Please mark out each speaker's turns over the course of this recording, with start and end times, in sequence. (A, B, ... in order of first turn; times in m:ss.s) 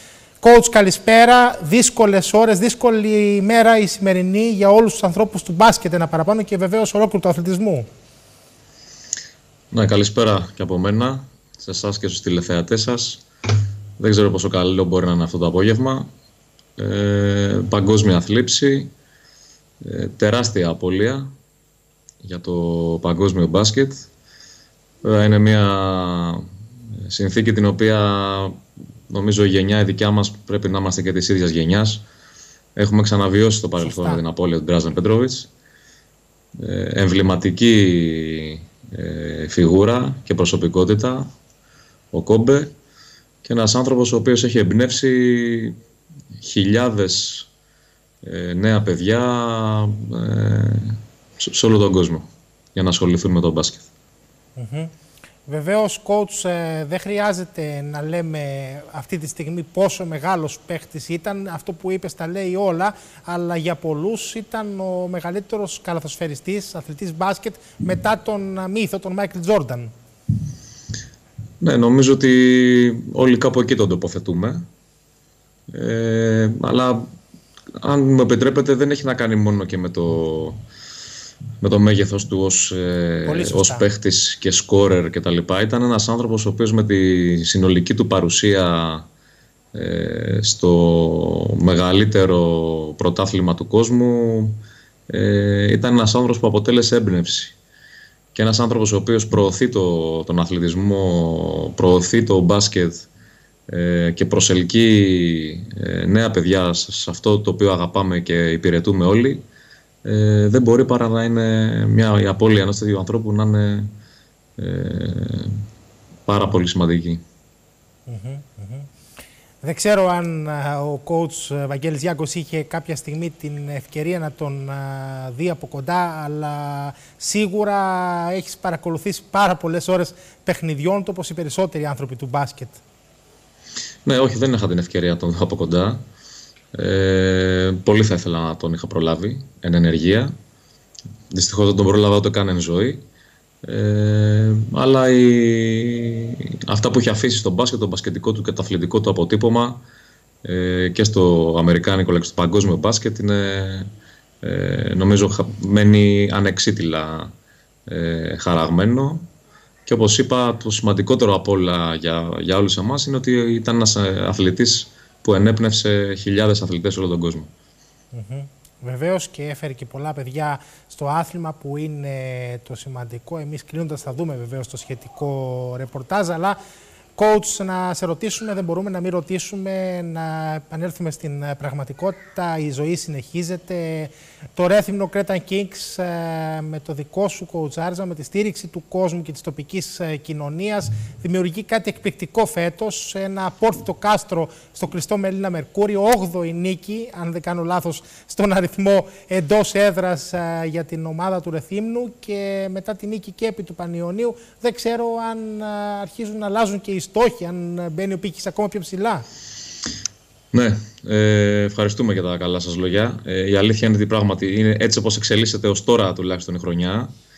0:00.4-0:07.8 A
0:09.7-0:13.2 B
0:14.0-0:16.1 B
0:16.8-0:18.9 B
0:19.8-0:21.3 B
0:22.2-0:24.1 B
0:25.0-0:26.4 B
0:27.0-0:28.6 B
0:29.1-0:32.0 B
0:32.8-0:35.5 B
0:33.8-0:34.2 A
0:36.6-0:41.3 B
0:42.1-0:42.7 B
0:43.4-0:45.8 B
0:46.4-0:47.5 B
0:48.2-0:53.9 B
0:54.6-0:54.9 A
0:55.5-1:09.9 A
1:11.6-1:14.6 B
1:15.7-1:17.0 B
1:17.8-1:20.6 B
1:21.6-1:29.1 B
1:23.2-1:23.9 A
1:29.7-1:37.6 B
1:38.3-1:43.1 B
1:43.7-1:49.4 B
1:50.0-1:53.9 B
1:54.6-1:55.6 B
1:56.3-1:57.2 B
1:58.1-1:58.9 A
1:59.6-2:12.8 A
2:14.0-2:16.0 B
2:16.7-2:20.3 B
2:21.3-2:23.0 B
2:23.6-2:29.8 B
2:30.4-2:33.9 B
2:34.4-2:37.3 B
2:37.9-2:39.2 B
2:39.8-2:47.5 B
2:48.1-2:56.6 A
2:57.2-3:29.2 A
3:30.5-3:37.1 B